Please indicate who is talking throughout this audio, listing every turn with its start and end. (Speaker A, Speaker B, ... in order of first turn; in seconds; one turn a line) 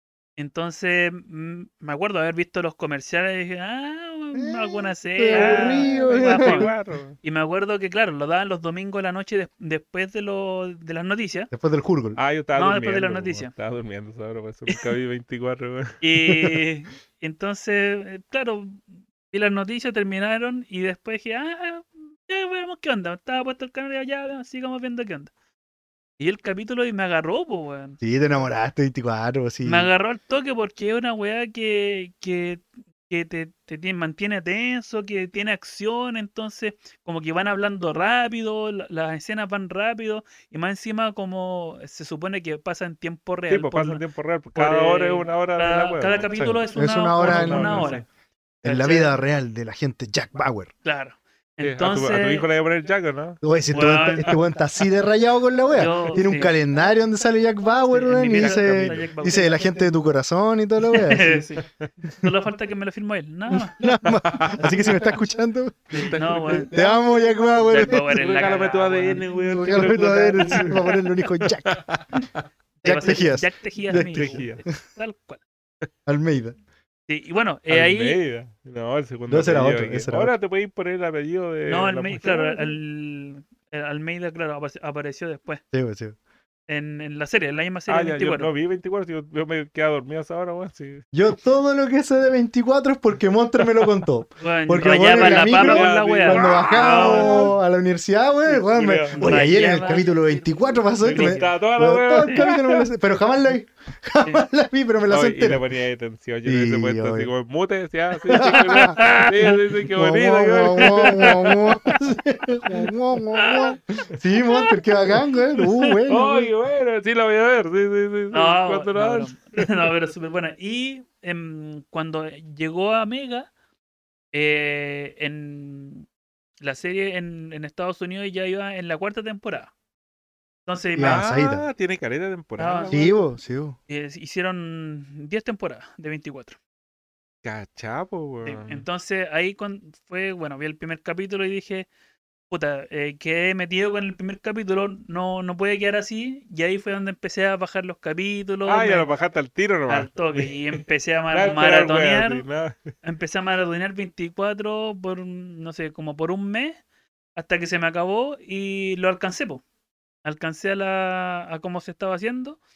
Speaker A: 0.4-11.5
Speaker B: 4.3-6.7
Speaker C: 5.3-7.2
Speaker B: 11.5-12.2
Speaker C: 12.2-16.0
Speaker A: 12.5-13.5
Speaker A: 16.0-25.3
Speaker A: 26.2-28.0
Speaker B: 28.0-29.9
Speaker A: 29.6-44.0
Speaker C: 43.5-46.7
Speaker A: 44.5-48.0
Speaker B: 46.7-47.9
Speaker C: 47.2-48.0
Speaker B: 48.6-50.7
Speaker A: 48.6-49.1
Speaker A: 50.8-52.5
Speaker C: 51.6-53.4
Speaker B: 53.4-61.5
Speaker A: 53.7-54.5
Speaker A: 55.7-56.6
Speaker A: 57.8-59.9
Speaker C: 58.3-59.0
Speaker A: 60.9-63.8
Speaker B: 63.5-65.9
Speaker C: 64.0-64.8
Speaker A: 64.6-65.0
Speaker A: 65.9-67.0
Speaker C: 65.9-66.7
Speaker B: 66.5-68.2
Speaker A: 67.6-69.3
Speaker C: 67.7-72.4
Speaker B: 69.5-71.8
Speaker A: 70.5-70.7
Speaker A: 72.8-75.4
Speaker B: 72.8-74.5
Speaker C: 74.1-74.6
Speaker B: 76.0-76.5
Speaker A: 77.1-78.2
Speaker C: 77.7-82.7
Speaker B: 79.3-80.3
Speaker A: 81.7-85.6
Speaker B: 85.7-86.2
Speaker A: 86.7-88.5
Speaker C: 87.9-91.1
Speaker B: 91.1-105.6
Speaker C: 93.6-93.9
Speaker A: 94.4-97.5
Speaker C: 94.8-97.5
Speaker A: 98.5-101.6
Speaker C: 98.7-99.5
Speaker C: 101.0-102.8
Speaker A: 102.2-102.5
Speaker C: 105.1-111.5
Speaker B: 106.5-107.3
Speaker B: 108.3-116.5
Speaker A: 108.4-109.5
Speaker A: 110.8-112.0
Speaker A: 113.4-113.8
Speaker A: 114.5-114.7
Speaker C: 116.1-119.8
Speaker A: 118.3-123.5
Speaker A: 124.3-126.1
Speaker A: 126.6-129.7
Speaker A: 130.7-131.2
Speaker B: 130.9-131.6
Speaker C: 131.0-133.1
Speaker A: 132.6-133.2
Speaker B: 132.9-133.8
Speaker A: 133.9-136.6
Speaker C: 137.4-138.8
Speaker A: 138.4-141.9
Speaker A: 142.5-149.1
Speaker C: 148.6-152.8
Speaker A: 149.9-152.4
Speaker A: 153.0-156.8
Speaker A: 157.3-159.6
Speaker A: 160.2-162.6